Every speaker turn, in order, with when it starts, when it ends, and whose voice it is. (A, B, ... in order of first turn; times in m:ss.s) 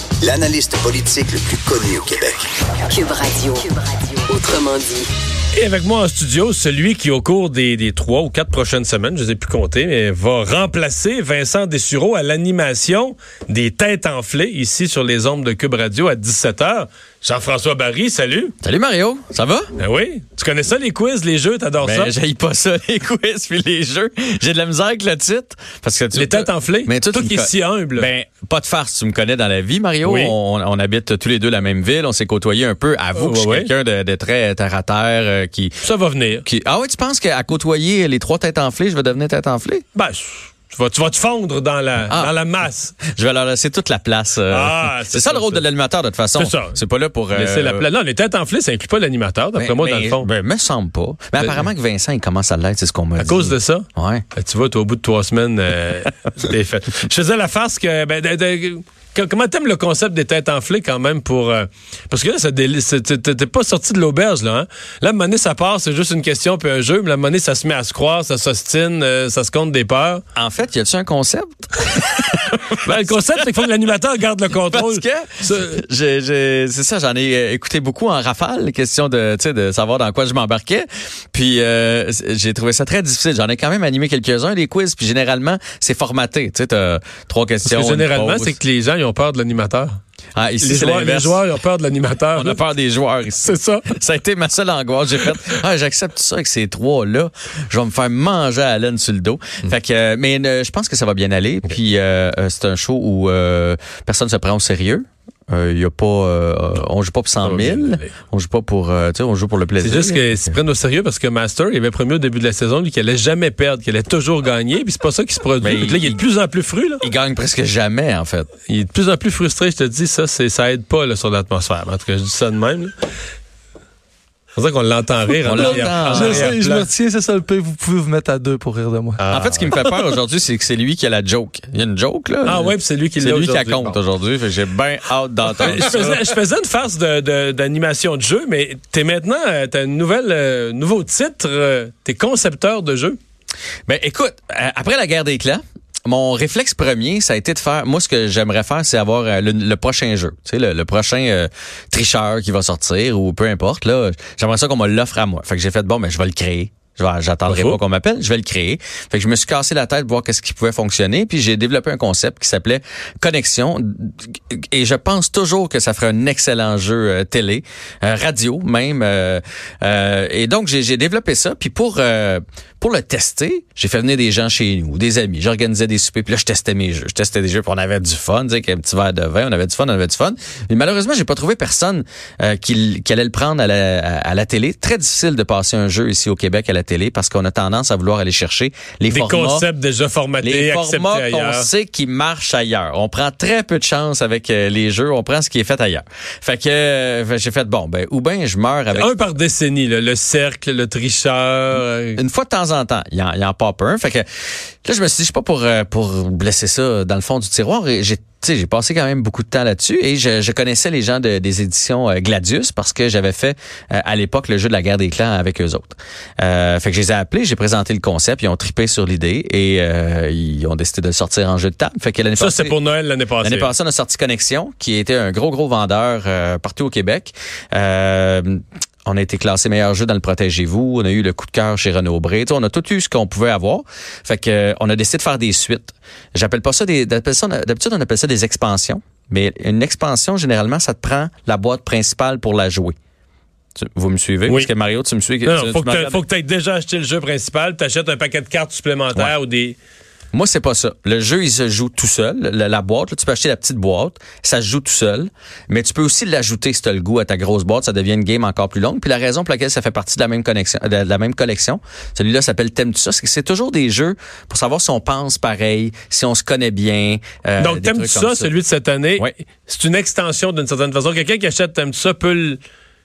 0:00.2-0:02.5 A
0:03.1-0:05.1 B
0:05.5-0:18.5 C
0:18.6-0:19.7 D
0:19.8-0:22.2 C
0:21.8-0:35.8 D
0:26.1-0:28.1 C
0:30.0-0:30.4 C
0:33.1-0:33.7 C
0:35.8-0:36.4 C
0:36.4-0:39.8 D
0:39.9-0:43.0 C
0:43.0-0:47.9 D
0:44.5-0:45.7 C
0:46.4-0:46.8 C
0:47.3-0:50.3 C
0:49.6-0:54.2 D
0:53.2-1:10.2 C
1:10.4-1:13.1 D
1:12.7-1:15.8 C
1:14.6-1:28.6 D
1:27.6-1:30.0 C
1:30.3-1:31.4 D
1:30.6-1:32.6 C
1:32.3-1:50.3 D
1:33.4-1:33.9 C
1:47.4-1:48.2 C
1:49.8-1:57.0 C
1:55.6-1:56.2 D
1:57.0-1:58.5 D
1:58.6-2:02.9 C
2:04.5-2:06.9 C
2:05.4-2:06.5 D
2:06.1-2:09.2 E
2:09.2-2:09.8 C
2:09.3-2:16.2 D
2:12.4-2:14.0 C
2:15.6-2:23.2 C
2:23.9-3:09.7 D
2:37.5-2:37.8 C
3:09.1-3:11.7 C
3:10.4-3:19.1 D
3:18.9-3:22.2 C
3:22.2-3:24.2 D
3:24.8-3:42.8 D
3:42.4-3:43.7 C
3:43.4-4:02.9 D
4:03.8-4:06.2 D
4:04.5-4:04.7 C
4:05.4-4:09.8 C
4:10.3-4:28.5 D
4:27.6-4:32.6 C